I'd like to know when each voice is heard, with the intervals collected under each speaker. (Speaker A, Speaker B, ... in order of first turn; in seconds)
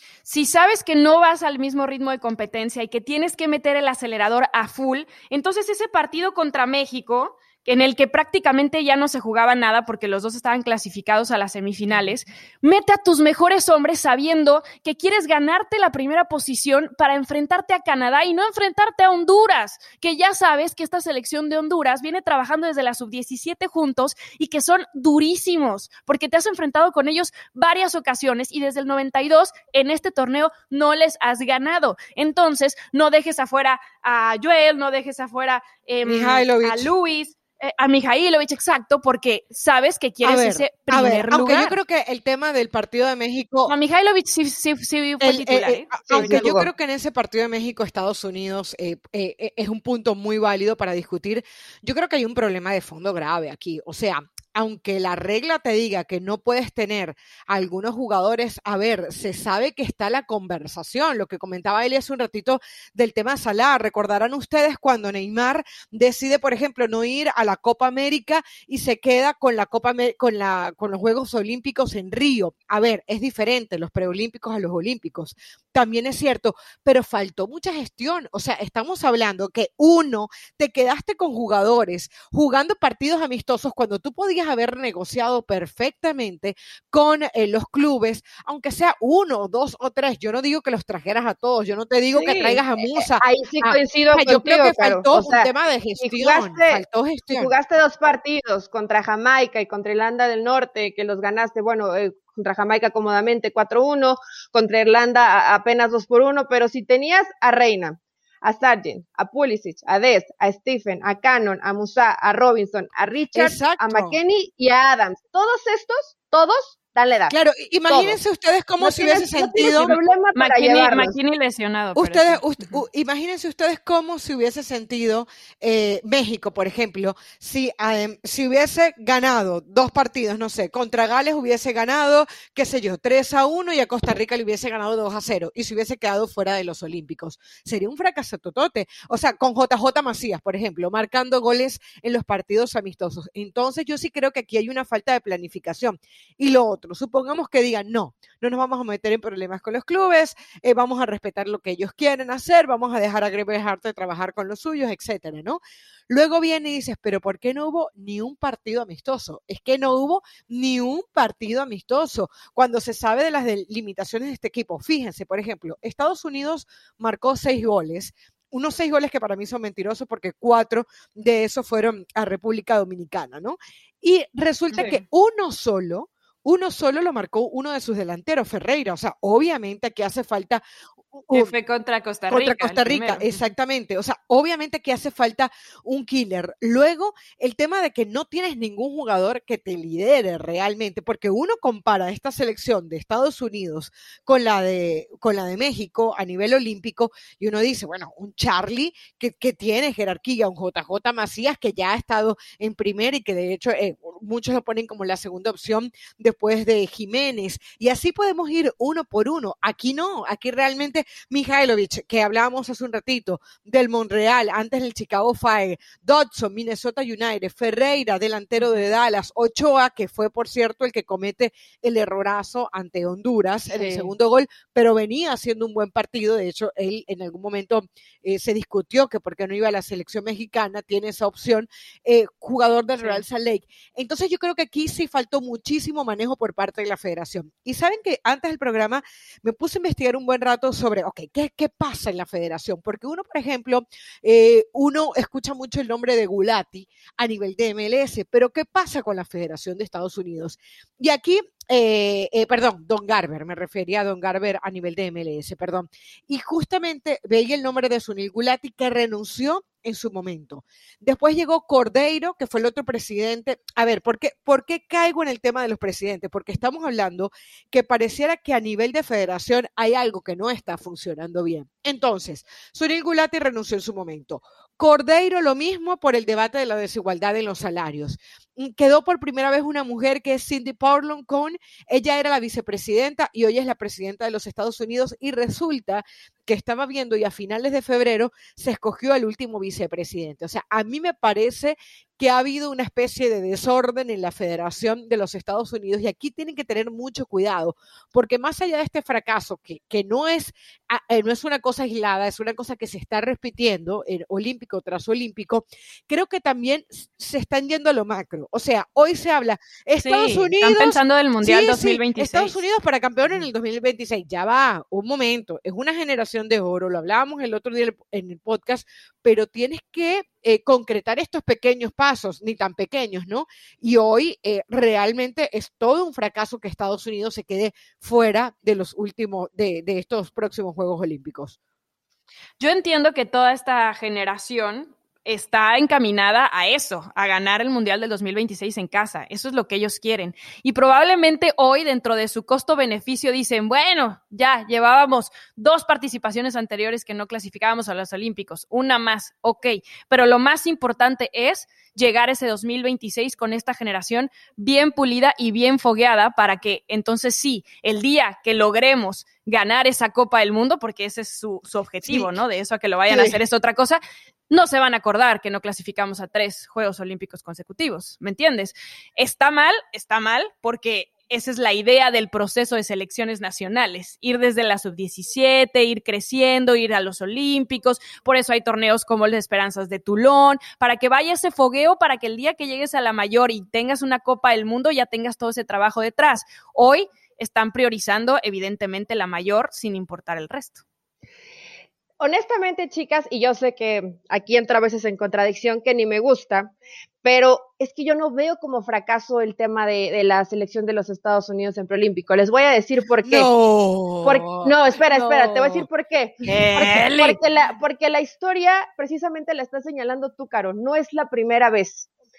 Speaker A: 0.2-41.8, 43.7-46.5, 119.8-122.8, 174.7-175.0, 181.3-183.4, 223.8-224.1, 310.0-312.6, 332.6-390.8, 405.2-405.6, 406.4-407.4
Speaker B: 36.0-36.9, 40.2-43.7, 45.2-97.5, 113.3-114.2, 117.3-119.9, 122.0-181.5, 182.3-331.6, 362.1-362.3, 363.1-363.4, 403.2-404.7, 405.3-405.8, 406.5-406.9
Speaker C: 46.1-46.7, 92.1-117.3, 117.9-118.2, 118.8-121.1, 392.2-403.5, 404.2-412.1